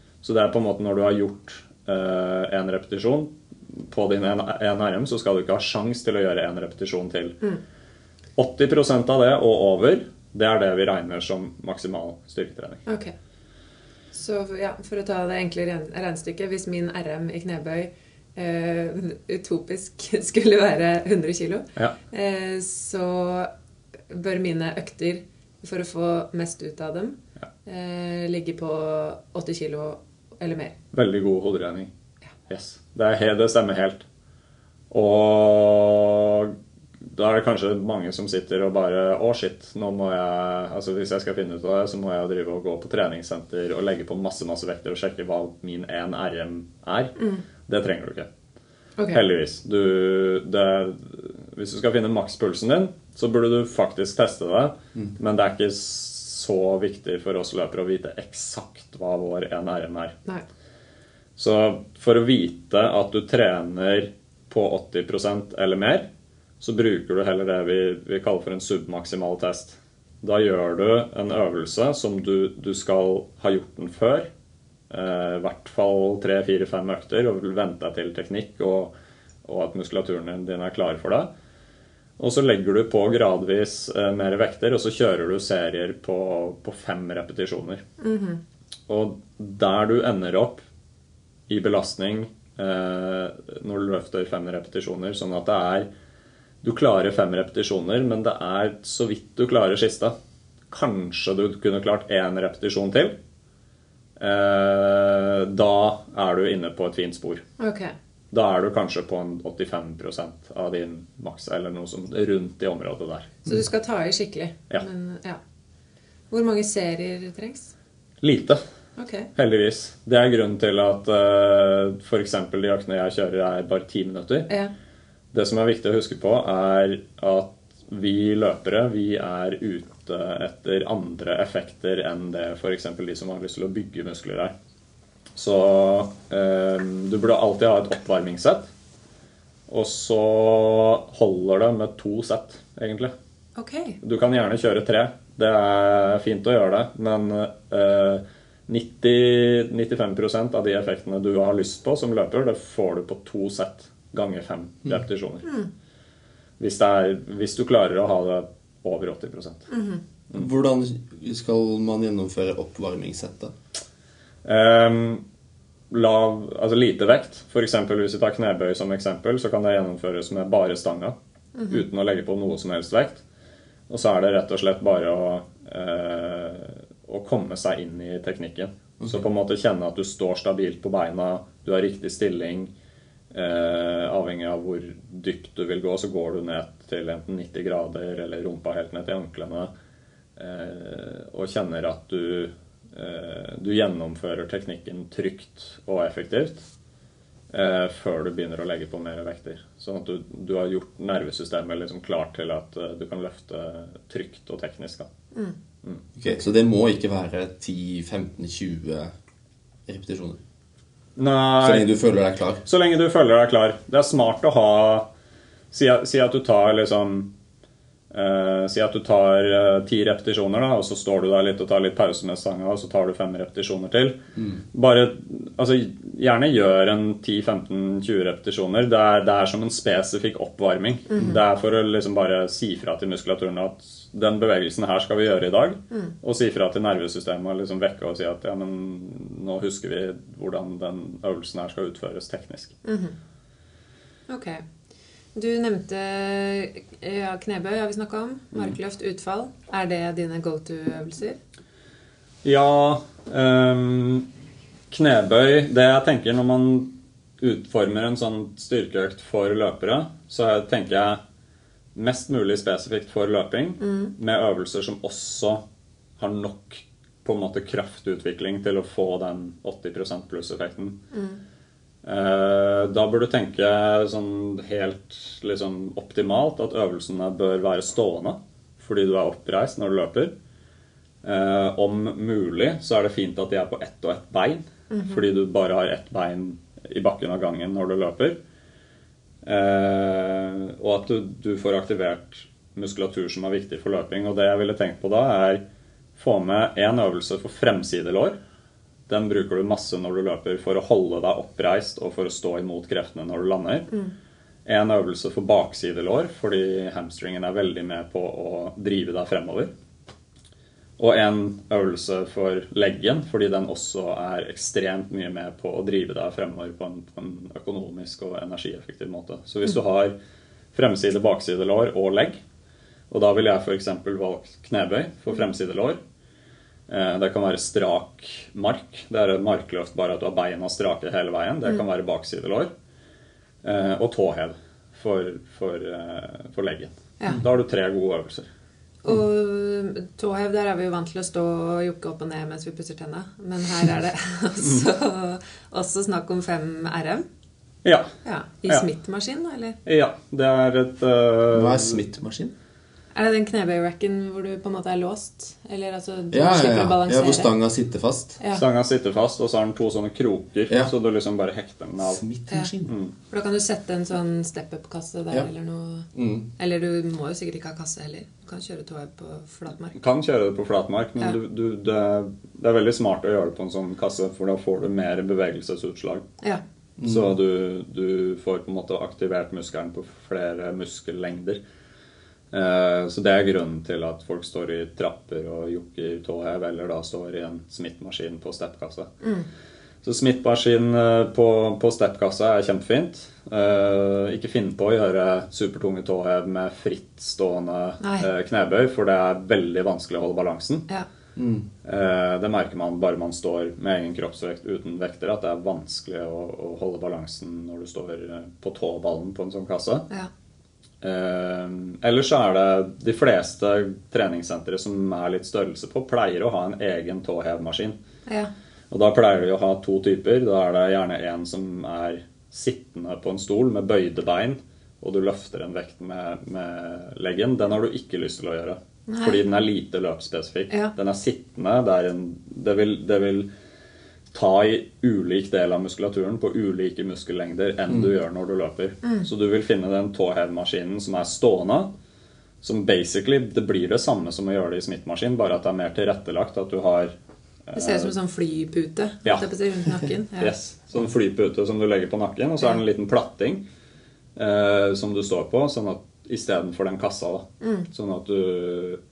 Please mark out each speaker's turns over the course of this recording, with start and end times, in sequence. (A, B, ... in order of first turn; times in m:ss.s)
0:00.2-0:07.4 A
0:08.4-0:12.8 A
0:12.8-0:13.1 B
0:14.1-0:23.5 B
0:24.1-0:30.8 B
0:30.9-0:31.9 A
0:32.5-0:34.1 A
0:34.9-0:36.6 A
0:37.1-0:48.3 A
0:47.2-0:47.4 B
0:49.1-1:00.2 A
1:01.4-1:06.1 A
1:06.6-1:14.3 A
1:14.9-1:21.3 A
1:22.2-1:27.8 A
1:28.0-1:28.4 B
1:28.9-1:30.6 A
1:31.5-1:35.9 A
1:36.6-1:40.1 A
1:40.7-1:43.2 A
1:44.2-1:47.4 A
1:47.6-1:47.9 B
1:48.3-1:53.4 A
1:53.5-1:55.4 B
1:56.3-1:57.7 B
1:58.2-1:58.6 A
1:59.0-1:59.3 B
1:59.3-2:04.5 A
2:05.3-2:14.5 A
2:15.4-2:18.7 A
2:19.7-2:23.1 A
2:23.6-2:24.0 B
2:24.0-2:35.5 A
2:36.6-2:39.6 A
2:39.7-2:40.0 B
2:40.3-2:43.5 C
2:44.4-2:45.2 A
2:45.9-2:51.2 A
2:51.5-2:51.8 B
2:51.7-2:53.2 A
2:53.9-3:02.7 A
3:03.3-3:09.7 A
3:10.4-3:16.6 A
3:17.5-3:25.1 A
3:26.2-3:29.1 C
3:29.9-3:30.4 C
3:31.2-3:31.9 A
3:31.6-3:32.6 C
3:32.6-3:35.1 A
3:35.7-3:37.3 A
3:38.1-3:44.2 A
3:44.4-3:44.6 C
3:44.7-4:02.8 A
3:51.1-3:51.4 B
4:02.8-4:03.2 B
4:04.3-4:04.6 B
4:05.3-4:11.4 B
4:12.4-4:14.3 A
4:14.9-4:21.2 A
4:21.9-4:25.6 A
4:23.8-4:24.1 B
4:26.2-4:31.0 A
4:31.1-4:31.4 B
4:32.0-4:40.3 A
4:41.2-4:48.4 A
4:44.9-4:45.2 B
4:49.4-4:55.6 A
4:56.2-4:58.4 A
4:59.1-5:03.9 A
5:04.6-5:09.7 A
5:11.0-5:20.1 A
5:20.7-5:22.4 A
5:23.1-5:26.0 A
5:26.9-5:32.7 A
5:33.6-5:38.5 A
5:39.0-5:47.2 B
5:47.8-5:48.1 A
5:48.2-5:49.8 B
5:49.8-5:52.0 A
5:51.5-5:52.5 C
5:53.1-5:57.5 B
5:56.3-5:58.4 C
5:58.4-5:58.6 B
5:58.5-6:02.2 A
6:02.0-6:02.9 C
6:02.8-6:03.1 A
6:03.3-6:10.0 B
6:06.1-6:06.5 C
6:09.9-6:16.2 A
6:17.0-6:17.3 C
6:17.0-6:21.6 A
6:22.5-6:29.1 A
6:29.2-6:29.5 B
6:30.0-6:40.8 A
6:38.0-6:38.3 B
6:41.4-6:41.7 C
6:41.8-6:50.1 A
6:51.0-6:58.0 A
6:58.2-6:58.5 B
6:58.9-7:13.5 A
7:09.1-7:09.4 B
7:14.3-7:21.9 A
7:22.6-7:27.1 A
7:27.7-7:28.1 A
7:27.7-7:30.5 B
7:30.4-7:33.6 A
7:34.4-7:39.0 A
7:37.6-7:37.9 B